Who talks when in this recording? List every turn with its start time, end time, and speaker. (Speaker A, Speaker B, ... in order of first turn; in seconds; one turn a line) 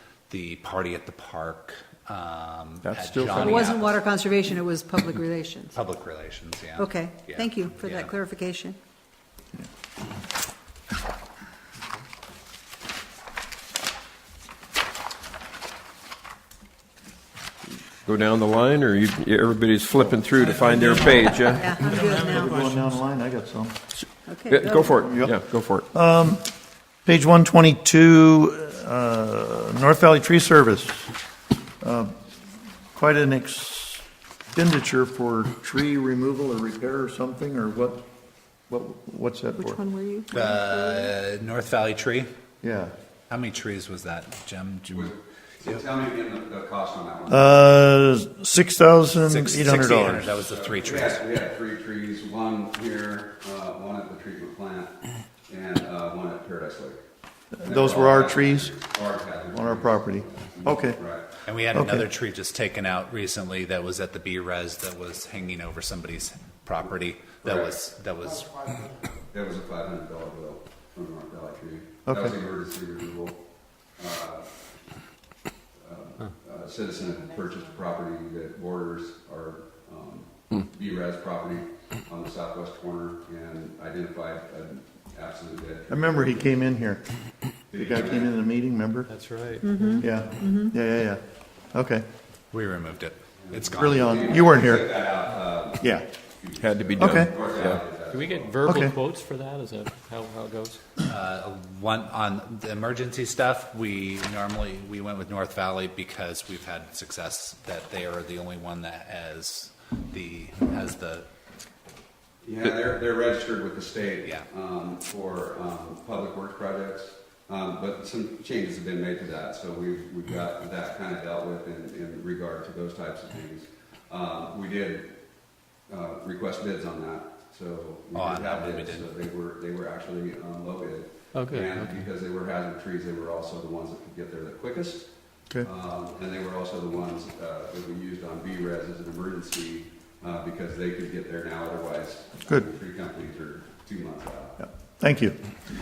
Speaker A: 0.3-4.0
Speaker B: 2.8-3.7
Speaker C: 3.3-5.8
Speaker A: 5.7-8.2
Speaker C: 6.8-8.8
Speaker D: 18.0-21.8
Speaker C: 21.4-22.6
Speaker B: 22.0-23.8
Speaker D: 24.0-25.9
Speaker C: 24.2-25.1
Speaker B: 25.0-25.4
Speaker B: 25.9-26.5
Speaker B: 27.1-31.1
Speaker B: 31.8-32.1
Speaker B: 33.0-38.0
Speaker B: 38.7-39.8
Speaker C: 39.6-41.1
Speaker A: 40.3-42.3
Speaker B: 42.6-42.9
Speaker A: 43.3-45.1
Speaker E: 44.9-47.5
Speaker B: 47.3-50.4
Speaker A: 49.2-51.2
Speaker E: 50.4-54.9
Speaker E: 55.5-57.0
Speaker B: 57.5-58.7
Speaker E: 57.6-61.3
Speaker B: 59.5-61.0
Speaker A: 61.5-68.6
Speaker B: 61.7-62.1
Speaker E: 67.4-67.7
Speaker E: 69.3-73.4
Speaker B: 72.1-72.3
Speaker E: 74.0-74.5
Speaker E: 75.8-86.5
Speaker B: 85.9-87.0
Speaker E: 87.7-88.4
Speaker B: 87.7-89.1
Speaker F: 89.1-89.9
Speaker C: 89.6-90.7
Speaker B: 90.0-91.2
Speaker B: 91.7-92.0
Speaker A: 92.5-94.4
Speaker E: 93.4-98.7
Speaker B: 93.8-94.9
Speaker B: 95.8-96.1
Speaker D: 96.6-97.8
Speaker B: 97.0-97.3
Speaker F: 98.0-100.8
Speaker B: 98.7-99.0
Speaker A: 101.0-111.3
Speaker E: 112.4-125.1
Speaker E: 125.9-144.6
Speaker A: 128.1-129.1
Speaker F: 131.3-131.9
Speaker B: 144.6-145.4